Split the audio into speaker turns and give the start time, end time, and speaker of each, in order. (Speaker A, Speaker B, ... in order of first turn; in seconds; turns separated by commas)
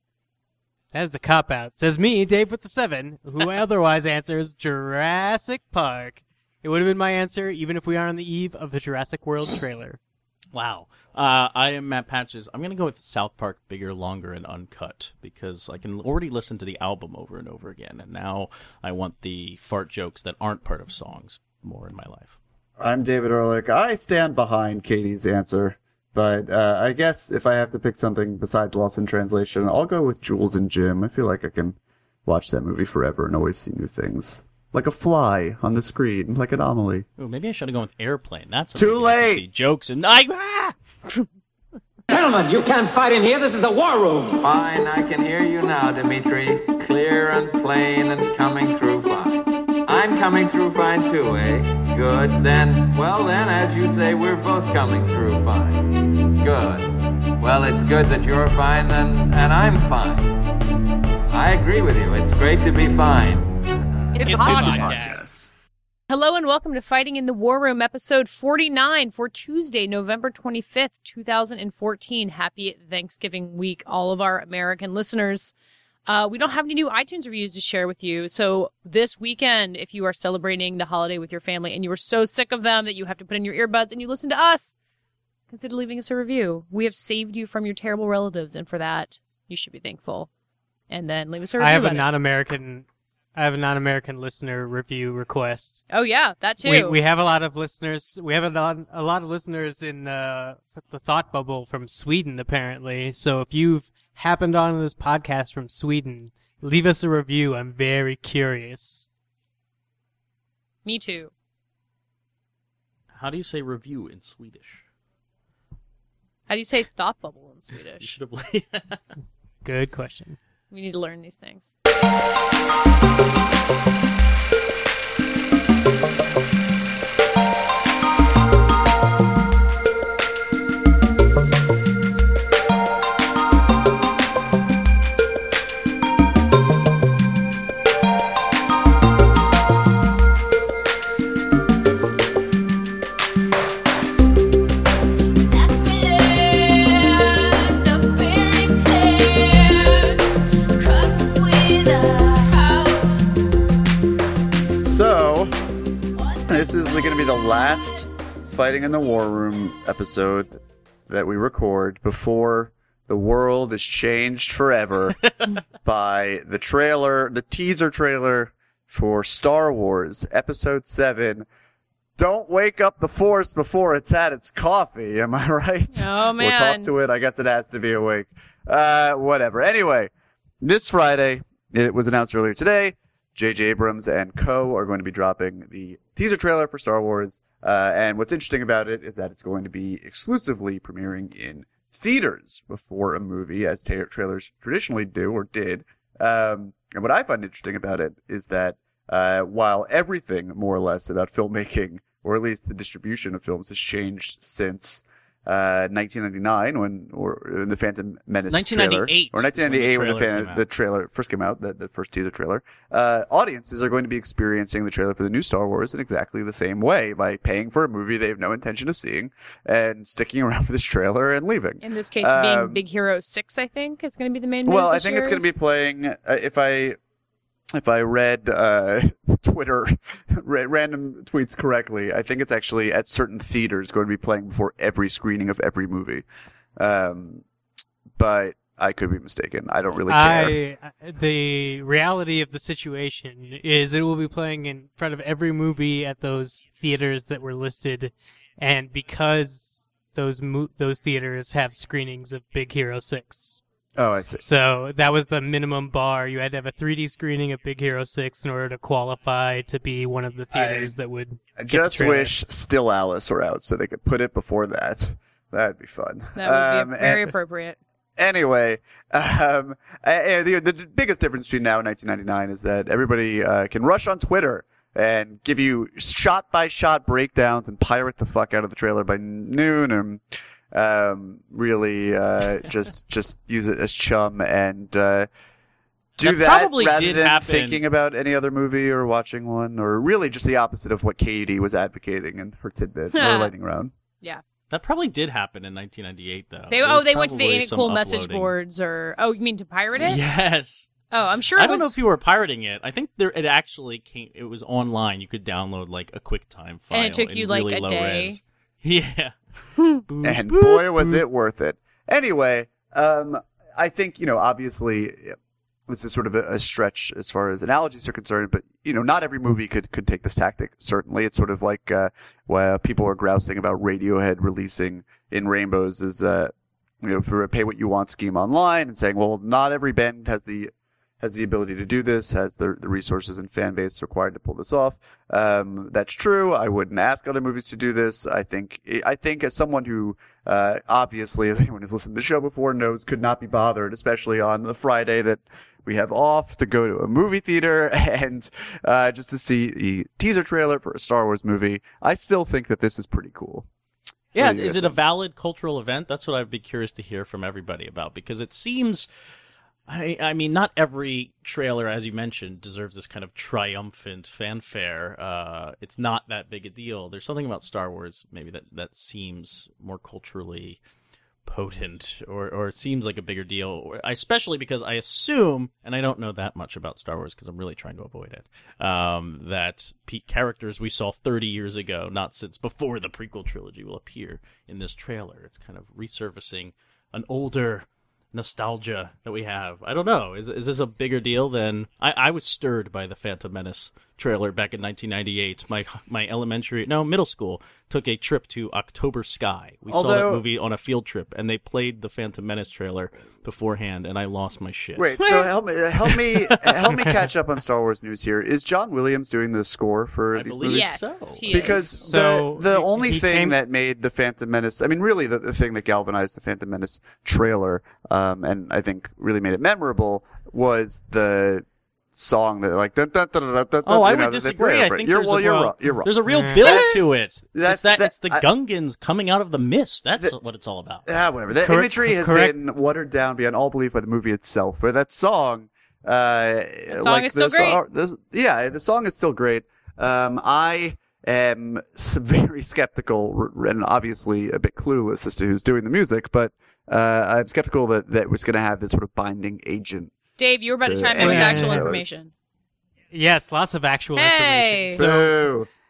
Speaker A: 0.9-10.0, Speaker B: 10.5-22.4, Speaker C: 22.8-37.1, Speaker B: 37.2-40.8, Speaker C: 38.7-39.4, Speaker D: 42.1-44.4, Speaker E: 44.4-55.9, Speaker E: 56.4-60.3, Speaker E: 61.3-64.3, Speaker F: 64.1-65.0, Speaker B: 64.2-65.3, Speaker C: 64.3-65.3, Speaker F: 66.1-75.5, Speaker F: 76.1-84.8, Speaker F: 85.5-90.3, Speaker F: 90.9-92.1, Speaker A: 91.6-95.8, Speaker F: 95.9-97.0, Speaker A: 96.6-109.1, Speaker F: 110.8-111.3, Speaker B: 113.1-114.8, Speaker F: 116.5-118.1, Speaker B: 118.0-119.0, Speaker A: 119.6-120.4, Speaker F: 120.7-121.7, Speaker D: 145.5-153.5, Speaker C: 154.8-155.6, Speaker C: 156.4-171.5, Speaker D: 156.6-158.1, Speaker C: 172.2-222.8, Speaker F: 175.9-176.9, Speaker B: 208.5-210.7, Speaker F: 221.8-225.4, Speaker C: 224.7-227.0, Speaker C: 227.7-236.3, Speaker C: 236.8-237.4, Speaker C: 238.2-240.6, Speaker A: 240.1-253.6, Speaker C: 254.0-254.4, Speaker A: 254.4-262.3, Speaker C: 260.5-260.9, Speaker C: 261.6-267.3, Speaker F: 266.4-267.8, Speaker C: 268.2-285.3, Speaker C: 286.2-293.9, Speaker B: 286.2-287.8, Speaker F: 293.1-293.5, Speaker B: 294.7-298.5, Speaker F: 296.7-300.2, Speaker B: 300.0-300.9, Speaker F: 301.1-301.9, Speaker B: 301.6-309.4, Speaker F: 306.9-308.4, Speaker B: 310.1-311.2, Speaker C: 310.2-315.4, Speaker C: 315.9-353.7, Speaker B: 354.3-359.1, Speaker C: 354.4-355.0, Speaker B: 359.9-370.8, Speaker B: 371.4-405.5, Speaker C: 399.9-400.4, Speaker C: 405.0-428.4, Speaker B: 406.1-407.0, Speaker B: 410.4-411.9, Speaker F: 410.6-412.1, Speaker A: 412.0-413.6, Speaker B: 423.9-431.1, Speaker A: 425.4-426.6, Speaker C: 431.1-450.1, Speaker A: 431.6-432.5, Speaker F: 436.9-437.8, Speaker F: 450.4-452.3, Speaker C: 450.8-452.1, Speaker A: 451.2-451.9, Speaker A: 453.1-455.5, Speaker F: 454.2-455.0, Speaker C: 454.9-455.7